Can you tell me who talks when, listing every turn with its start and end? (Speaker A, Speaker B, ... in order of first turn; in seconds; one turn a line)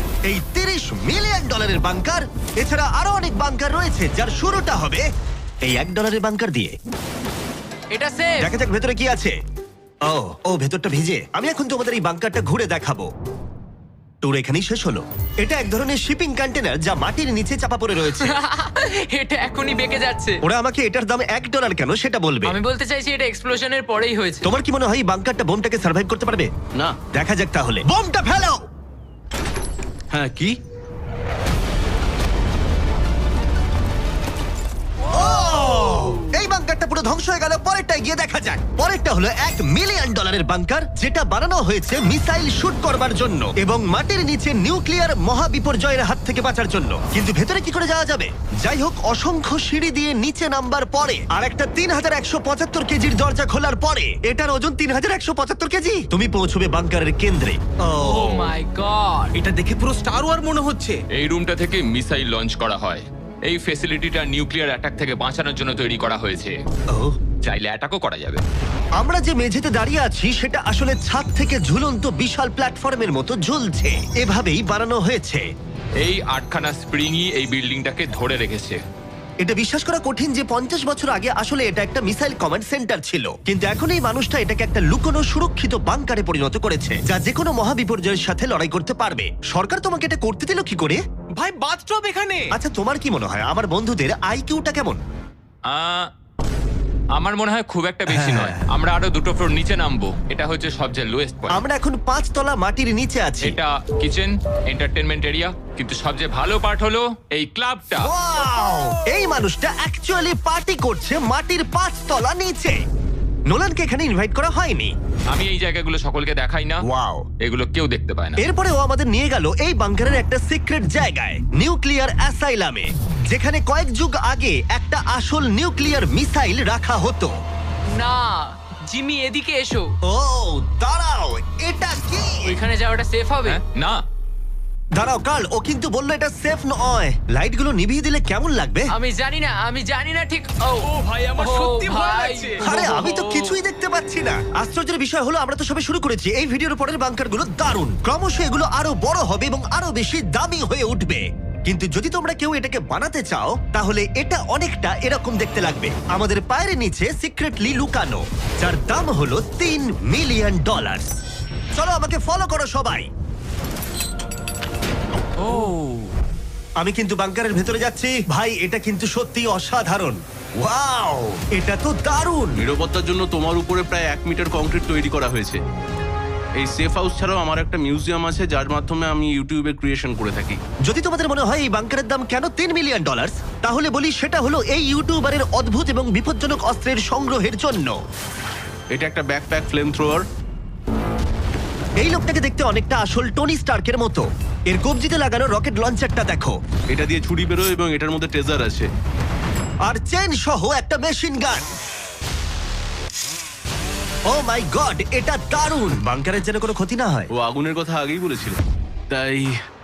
Speaker A: 0.3-5.0
Speaker A: 5.7-6.8
Speaker B: 7.9-8.5
Speaker A: 8.4-9.3
Speaker A: 10.1-13.1
Speaker A: 14.2-18.4
Speaker B: 18.2-20.4
Speaker A: 20.4-22.6
Speaker B: 22.4-24.5
Speaker A: 24.4-26.5
Speaker A: 27.1-28.6
Speaker C: 30.1-30.6
Speaker A: 35.1-58.5
Speaker B: 58.0-59.4
Speaker D: 59.3-61.0
Speaker E: 61.1-66.5
Speaker E: 67.4-68.4
Speaker A: 69.0-75.4
Speaker E: 76.0-78.8
Speaker A: 79.4-91.0
Speaker D: 91.4-92.6
Speaker A: 92.5-95.0
Speaker E: 95.7-96.1
Speaker E: 97.2-101.6
Speaker A: 98.1-98.6
Speaker A: 101.5-103.6
Speaker E: 103.5-108.1
Speaker A: 108.0-112.8
Speaker A: 113.5-114.9
Speaker E: 115.3-116.8
Speaker A: 116.8-117.3
Speaker E: 117.4-118.4
Speaker A: 118.4-127.3
Speaker B: 127.9-130.0
Speaker A: 130.1-132.6
Speaker B: 132.4-133.6
Speaker E: 133.4-134.0
Speaker A: 135.0-138.9
Speaker B: 138.9-143.1
Speaker D: 140.8-143.5
Speaker A: 142.6-161.1
Speaker A: 161.8-163.1
Speaker E: 165.4-166.1
Speaker A: 166.8-172.6
Speaker C: 172.6-175.6
Speaker C: 176.6-180.6
Speaker A: 180.8-187.9
Speaker C: 188.9-190.2
Speaker A: 192.0-196.5
Speaker C: 196.9-198.9
Speaker A: 199.9-201.7
Speaker A: 204.3-207.3
Speaker C: 207.4-208.6
Speaker C: 209.1-209.5